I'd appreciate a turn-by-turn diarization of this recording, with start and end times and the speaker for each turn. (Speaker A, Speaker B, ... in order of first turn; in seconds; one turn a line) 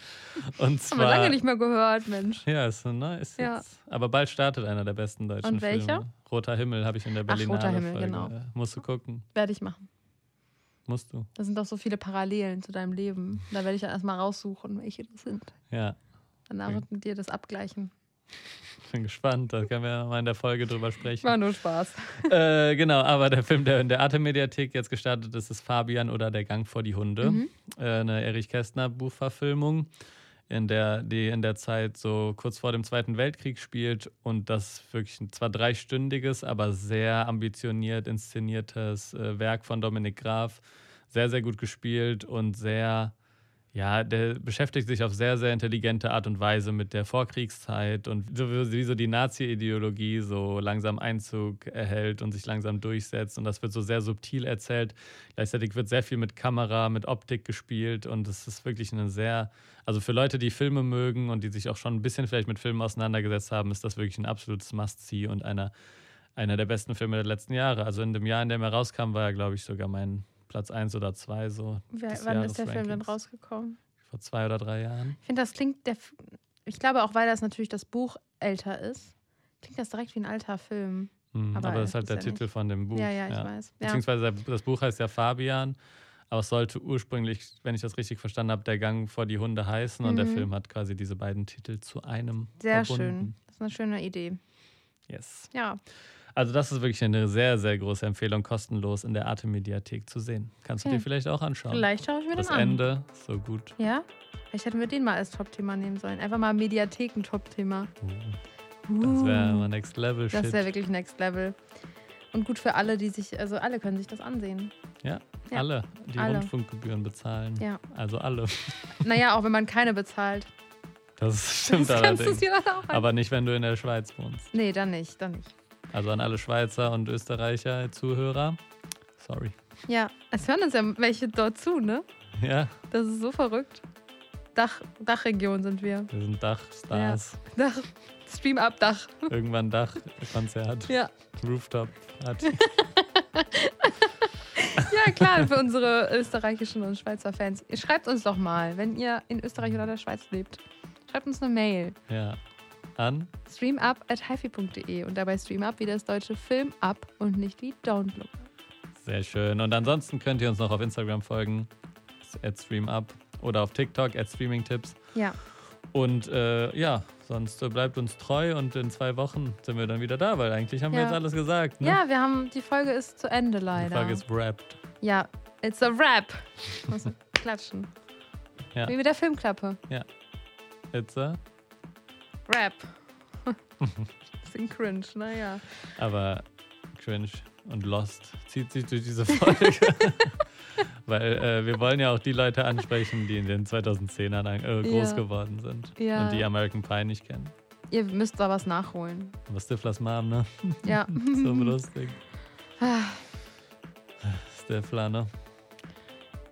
Speaker A: 0.4-1.4
Speaker B: 0.9-2.5
Speaker A: 2.5-9.3
Speaker B: 3.4-3.6
Speaker B: 5.4-6.0
Speaker B: 7.3-8.3
Speaker B: 9.3-9.9
Speaker A: 10.9-11.3
Speaker B: 11.4-15.6
Speaker A: 15.7-16.0
Speaker B: 16.5-17.9
Speaker A: 18.9-21.3
Speaker B: 21.2-22.3
Speaker A: 22.2-29.9
Speaker B: 27.2-27.5
Speaker A: 30.5-43.1
Speaker A: 43.7-65.7
Speaker A: 66.4-73.1
Speaker B: 71.9-73.8
Speaker A: 74.1-75.2
Speaker B: 75.2-82.4
Speaker A: 81.3-85.8
Speaker B: 82.9-84.0
Speaker A: 86.3-93.4
Speaker B: 90.0-90.5
Speaker B: 92.6-94.4
Speaker A: 95.1-95.5
Speaker B: 95.5-95.8
Speaker A: 96.4-103.8
Speaker B: 101.7-102.8
Speaker B: 103.8-107.9
Speaker A: 108.0-108.4
Speaker B: 108.9-109.7
Speaker A: 109.0-110.7
Speaker B: 110.3-111.6
Speaker B: 112.3-114.7
Speaker A: 115.0-119.0
Speaker B: 116.2-116.5
Speaker B: 119.0-120.5
Speaker A: 121.2-124.5
Speaker B: 121.7-123.1
Speaker B: 124.5-125.5
Speaker A: 125.9-128.6
Speaker A: 129.2-129.6
Speaker B: 129.9-132.1
Speaker A: 132.4-132.8
Speaker B: 132.9-133.8
Speaker B: 134.6-136.1
Speaker A: 136.1-137.4
Speaker B: 136.9-139.3
Speaker A: 139.3-142.8
Speaker B: 140.9-141.1
Speaker B: 142.5-152.0
Speaker A: 144.8-145.5
Speaker A: 152.1-152.4
Speaker A: 153.0-153.3
Speaker B: 153.5-158.5
Speaker A: 159.0-161.7
Speaker A: 162.2-165.0
Speaker A: 165.9-172.0
Speaker B: 170.9-171.2
Speaker B: 171.8-174.2
Speaker A: 173.8-174.8
Speaker B: 175.0-177.9
Speaker B: 178.9-179.8
Speaker A: 180.9-181.4
Speaker B: 182.5-183.6
Speaker B: 184.4-185.6
Speaker A: 186.0-197.5
Speaker B: 189.4-189.7
Speaker B: 194.8-195.2
Speaker B: 196.0-196.5
Speaker B: 197.9-199.4
Speaker A: 199.5-202.2
Speaker B: 200.8-201.8
Speaker B: 202.8-203.2
Speaker A: 204.2-205.3